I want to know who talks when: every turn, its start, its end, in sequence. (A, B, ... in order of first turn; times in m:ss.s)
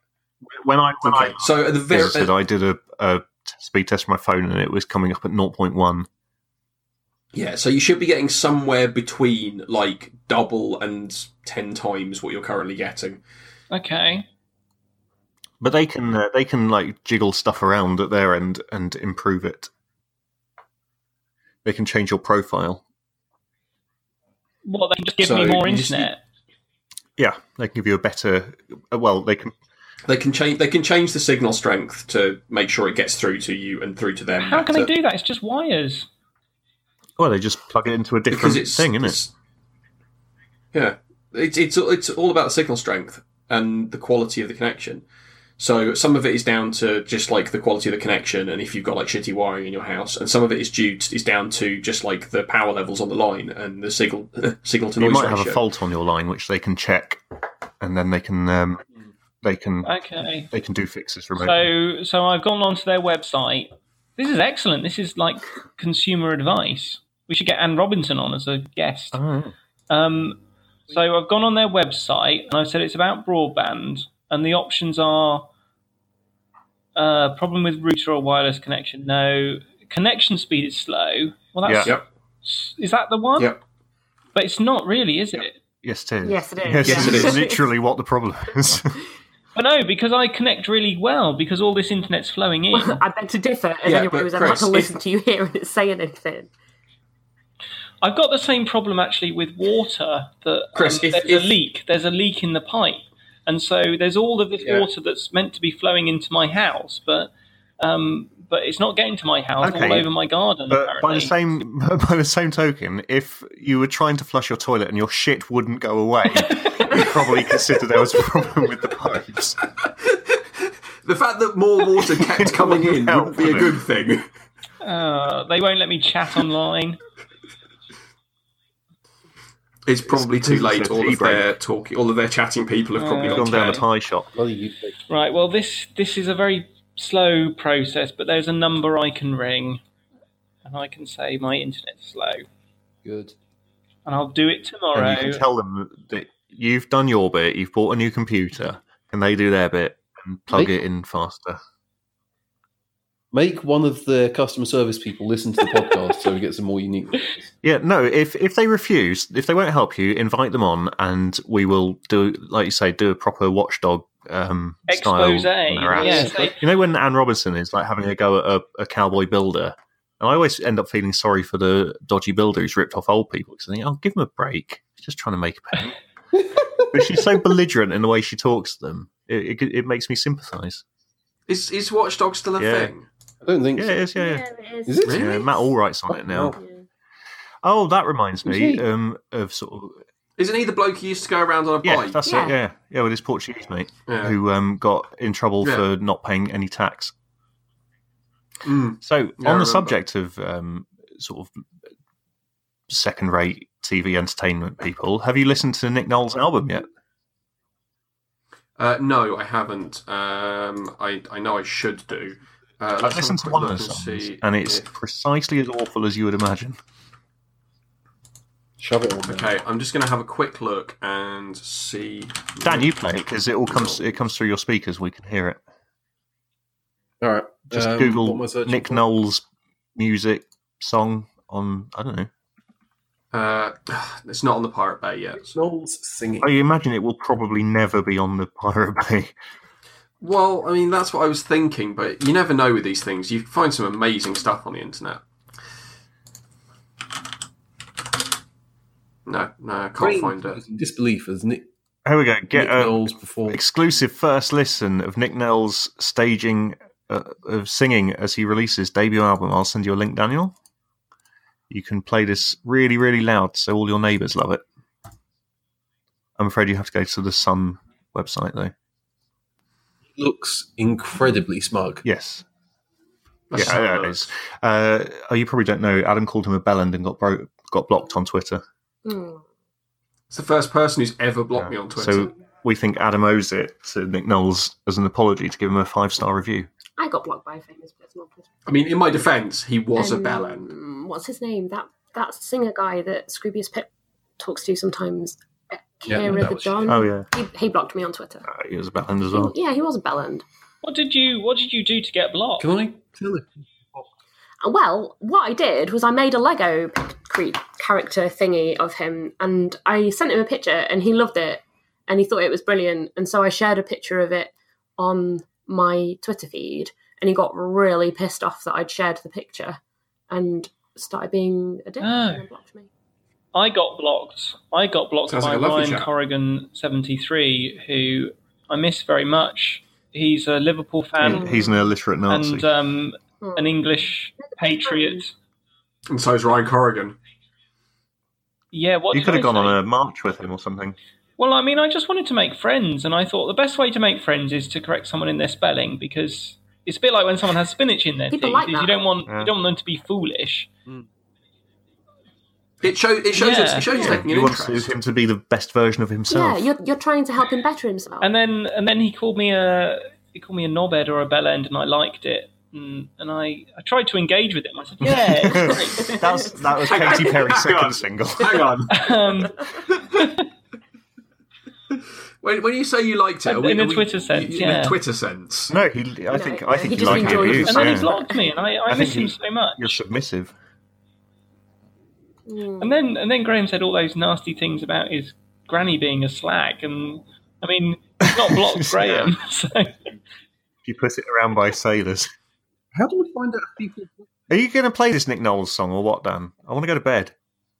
0:00.4-0:06.1 A
0:01.0-0:02.3 B
0:07.3-0:13.2 B
0:13.7-0:14.3 C
0:15.6-0:19.7 A
0:21.6-0:22.8 A
0:24.6-0:26.2 C
0:25.2-0:26.1 B
0:27.2-0:29.5 A
0:30.0-0:34.9 B
0:34.4-0:36.1 C
0:37.2-0:39.2 A
0:38.3-0:39.3 B
0:40.7-0:45.0 B
0:45.6-0:55.6 B
0:55.0-0:57.2 A
0:57.8-0:58.8 A
0:59.4-0:59.9 A
0:59.8-1:00.5 C
1:00.5-1:01.7 A
1:01.4-1:09.2 C
1:09.1-1:09.5 A
1:09.9-1:15.5 C
1:16.9-1:23.5 C
1:21.6-1:21.9 A
1:24.3-1:25.6 C
1:25.8-1:29.0 A
1:26.2-1:27.7 D
1:26.8-1:27.4 B
1:29.5-1:33.0 C
1:32.7-1:36.5 D
1:33.8-1:34.9 B
1:38.0-1:51.3 C
1:40.7-1:41.5 B
1:49.6-1:50.1 A
1:50.7-1:59.6 A
1:56.3-1:57.1 C
2:00.1-2:00.4 B
2:01.0-2:04.3 B
2:02.2-2:03.8 A
2:04.8-2:07.0 C
2:09.8-2:13.8 B
2:10.1-2:11.5 A
2:13.0-2:13.8 C
2:13.2-2:14.3 A
2:14.3-2:15.0 E
2:15.1-2:19.8 C
2:20.6-2:22.4 C
2:23.0-2:23.3 E
2:24.0-2:25.4 C
2:24.9-2:31.6 A
2:30.5-2:30.8 E
2:33.3-2:37.4 E
2:37.6-2:56.0 A
2:44.9-2:46.6 C
2:45.9-2:46.6 E
2:56.4-2:56.9 E
2:56.9-3:00.8 A
3:01.5-3:03.1 B
3:02.6-3:02.9 A
3:03.4-3:03.9 E
3:03.8-3:04.4 A
3:04.1-3:05.7 D
3:04.9-3:05.4 E
3:05.0-3:05.3 B
3:05.0-3:06.6 A
3:06.1-3:06.6 E
3:06.6-3:06.8 D
3:07.6-3:10.0 A
3:08.4-3:08.8 E
3:10.4-3:12.2 B
3:11.8-3:17.1 A
3:12.2-3:12.6 D
3:14.1-3:14.4 B
3:18.6-3:20.0 B
3:19.0-3:21.6 A
3:22.9-3:26.8 A
3:28.8-3:34.9 B
3:33.0-3:36.8 A
3:38.8-3:39.6 E
3:39.3-3:43.0 B
3:42.6-3:45.6 A
3:43.7-3:44.0 B
3:47.2-3:49.0 E
3:47.7-3:52.3 A
3:53.3-3:55.6 B
3:55.4-3:56.5 E
3:56.4-3:59.3 A
4:00.2-4:05.2 B
4:09.2-4:10.6 B
4:10.0-4:11.6 E
4:12.0-4:20.5 A
4:12.5-4:13.6 E
4:21.7-4:24.6 A
4:26.4-4:28.7 A
4:30.1-4:32.0 E
4:32.0-4:32.4 A
4:33.5-4:34.3 B
4:33.5-4:38.6 A
4:39.0-4:39.4 D
4:40.3-4:42.3 B
4:41.6-4:46.7 A
4:47.0-4:48.5 D
4:48.6-4:50.7 B
4:50.0-4:53.9 D
4:54.4-4:58.4 D
4:56.0-4:57.0 E
4:56.4-4:57.2 A
4:58.4-4:59.5 A
4:59.3-5:00.4 D
5:00.8-5:02.7 C
5:02.6-5:04.1 E
5:04.6-5:22.9 D
5:22.0-5:22.4 C
5:23.5-5:31.5 C
5:25.3-5:26.1 B
5:31.2-5:32.7 A
5:31.2-5:31.9 D
5:32.3-5:35.3 C
5:33.4-5:35.2 D
5:36.1-5:37.2 B
5:38.7-5:39.8 C
5:39.1-5:41.0 A
5:41.4-5:50.7 C
5:48.3-5:49.0 D
5:49.3-5:49.5 A
5:52.8-5:54.9 B
5:53.3-5:53.9 C
5:53.9-5:54.2 D
5:54.0-5:56.7 A
5:56.3-5:58.3 D
5:58.2-6:06.1 C
6:05.0-6:08.8 A
6:05.5-6:07.5 D
6:06.8-6:09.0 B
6:08.9-6:09.6 C
6:10.1-6:10.5 C
6:12.4-6:15.7 B
6:13.4-6:15.0 C
6:15.7-6:18.1 A
6:16.3-6:18.4 D
6:17.5-6:19.9 C
6:18.9-6:20.5 A
6:22.5-6:22.9 D
6:22.8-6:30.1 C
6:28.2-6:29.4 A
6:30.8-6:32.3 A
6:32.9-6:34.2 E
6:34.5-6:37.3 A